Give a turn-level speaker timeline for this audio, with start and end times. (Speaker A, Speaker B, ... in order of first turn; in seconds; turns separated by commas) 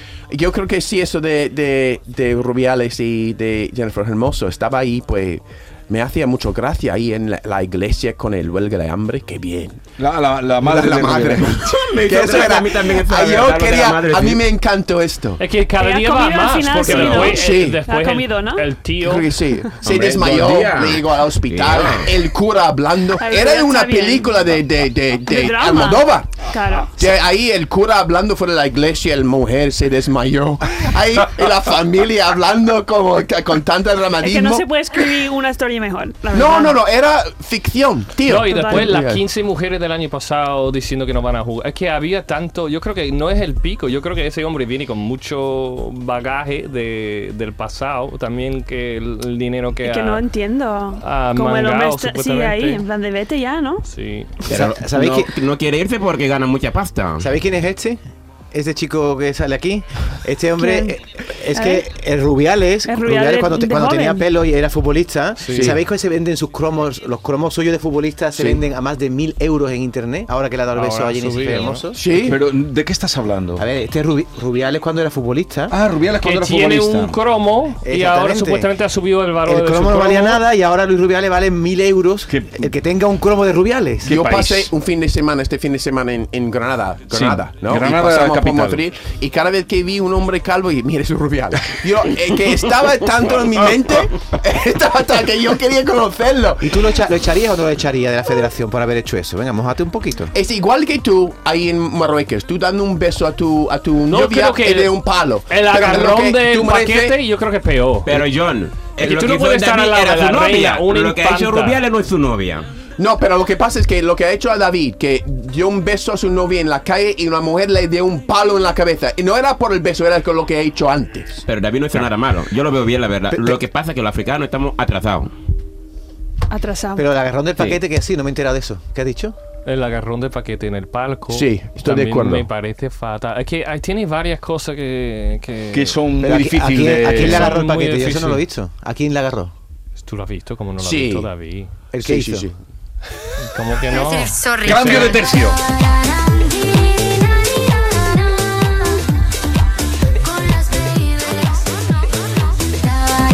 Speaker A: 0.3-9.8, Speaker B: 10.0-11.7, Speaker A: 10.6-15.4, Speaker C: 11.6-14.4, Speaker D: 15.4-19.3, Speaker E: 15.8-18.7, Speaker C: 16.9-17.3, Speaker A: 16.9-17.8, Speaker A: 19.0-34.7, Speaker C: 19.8-22.1, Speaker E: 23.2-24.5, Speaker E: 25.2-27.0, Speaker E: 34.2-36.8, Speaker A: 36.3-39.2, Speaker D: 38.2-50.2, Speaker E: 38.5-38.9, Speaker E: 49.8-53.8, Speaker D: 51.0-52.8, Speaker D: 53.9-54.3, Speaker C: 54.4-57.3, Speaker F: 54.5-55.4, Speaker F: 57.2-58.0, Speaker F: 58.5-72.0, Speaker E: 60.6-61.0, Speaker E: 61.5-61.9, Speaker E: 62.9-64.2, Speaker D: 65.4-65.8, Speaker A: 65.5-65.8, Speaker B: 68.3-68.6, Speaker D: 70.7-71.8, Speaker A: 71.9-72.4, Speaker B: 72.0-73.6, Speaker F: 73.6-75.7, Speaker B: 75.7-77.2, Speaker D: 76.2-80.4, Speaker F: 77.8-78.7, Speaker F: 79.4-84.2, Speaker B: 82.3-82.7, Speaker A: 84.0-96.7, Speaker B: 84.1-84.7, Speaker B: 87.1-88.8, Speaker F: 96.6-100.3, Speaker A: 100.3-107.2, Speaker D: 104.1-108.2, Speaker C: 108.0-112.7, Speaker D: 109.0-111.8, Speaker A: 113.0-121.4, Speaker C: 121.5-125.3, Speaker F: 123.3-123.6, Speaker E: 126.5-127.0, Speaker F: 127.0-129.3, Speaker D: 129.7-136.0, Speaker A: 131.3-132.4, Speaker B: 135.7-137.6, Speaker F: 136.2-139.5, Speaker D: 137.1-138.4, Speaker D: 140.0-141.7, Speaker A: 140.8-141.3, Speaker F: 141.9-142.5, Speaker A: 142.0-142.5, Speaker D: 143.4-145.2, Speaker B: 144.5-145.6